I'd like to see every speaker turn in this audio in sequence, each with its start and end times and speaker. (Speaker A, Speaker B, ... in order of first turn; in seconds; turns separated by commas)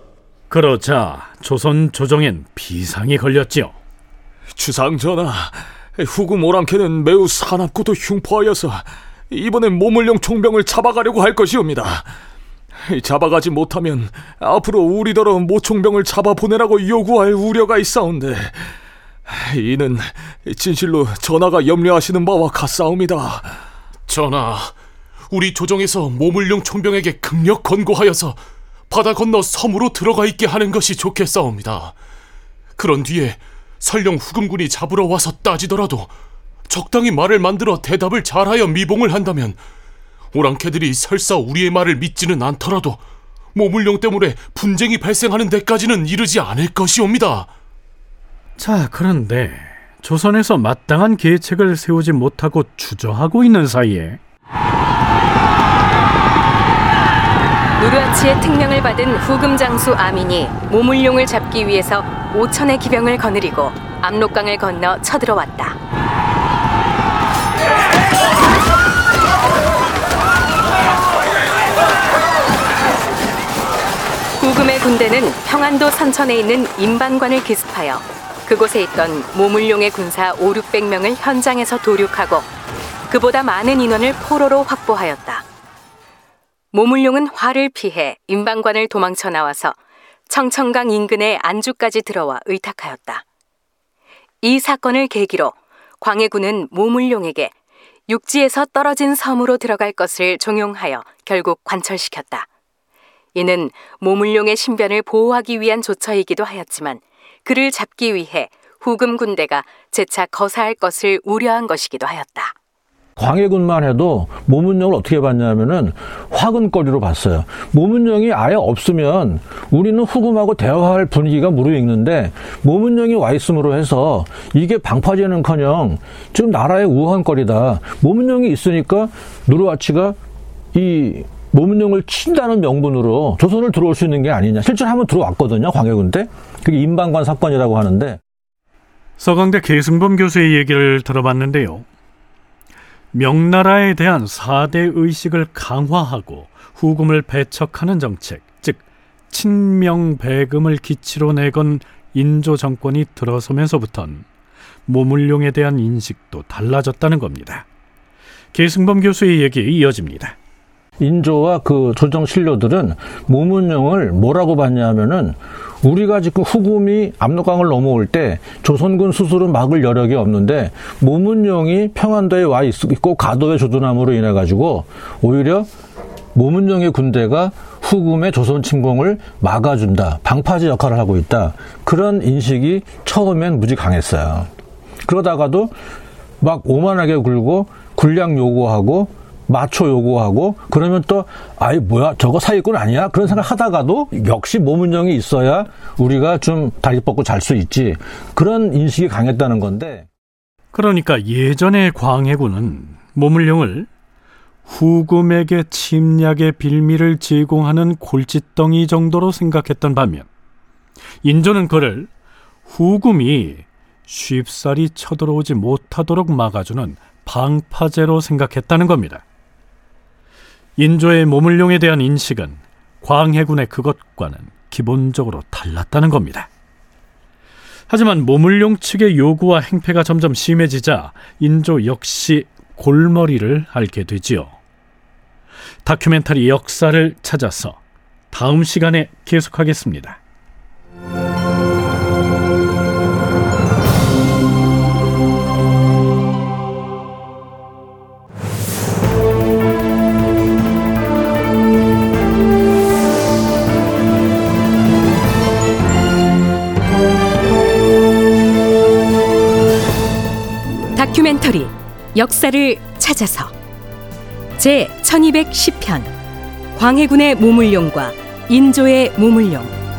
Speaker A: 0.5-3.8, Speaker B: 4.5-12.1, Speaker B: 12.8-18.7, Speaker B: 19.3-23.5, Speaker C: 24.1-24.7, Speaker C: 25.3-31.9, Speaker C: 32.8-36.1, Speaker C: 36.7-39.6, Speaker C: 40.3-43.0, Speaker C: 43.5-47.5, Speaker A: 48.6-54.2, Speaker D: 57.8-65.8, Speaker D: 74.4-82.5, Speaker D: 83.1-85.4, Speaker D: 86.7-89.8, Speaker D: 90.3-93.2, Speaker D: 94.4-97.5, Speaker D: 98.1-102.5, Speaker D: 103.3-112.5, Speaker E: 113.2-130.2, Speaker E: 130.7-138.2, Speaker A: 139.2-141.8, Speaker A: 143.1-154.2, Speaker A: 154.9-157.6, Speaker A: 158.5-160.3, Speaker E: 161.0-175.7, Speaker E: 176.3-184.5, Speaker E: 185.0-185.7, Speaker E: 186.4-200.1, Speaker A: 200.7-203.9, Speaker A: 204.7-210.3, Speaker A: 211.2-212.1, Speaker A: 212.7-219.2, Speaker A: 220.8-226.5, Speaker A: 227.9-234.6, Speaker A: 235.8-240.2, Speaker D: 260.9-263.5, Speaker D: 264.6-266.1, Speaker D: 266.7-269.8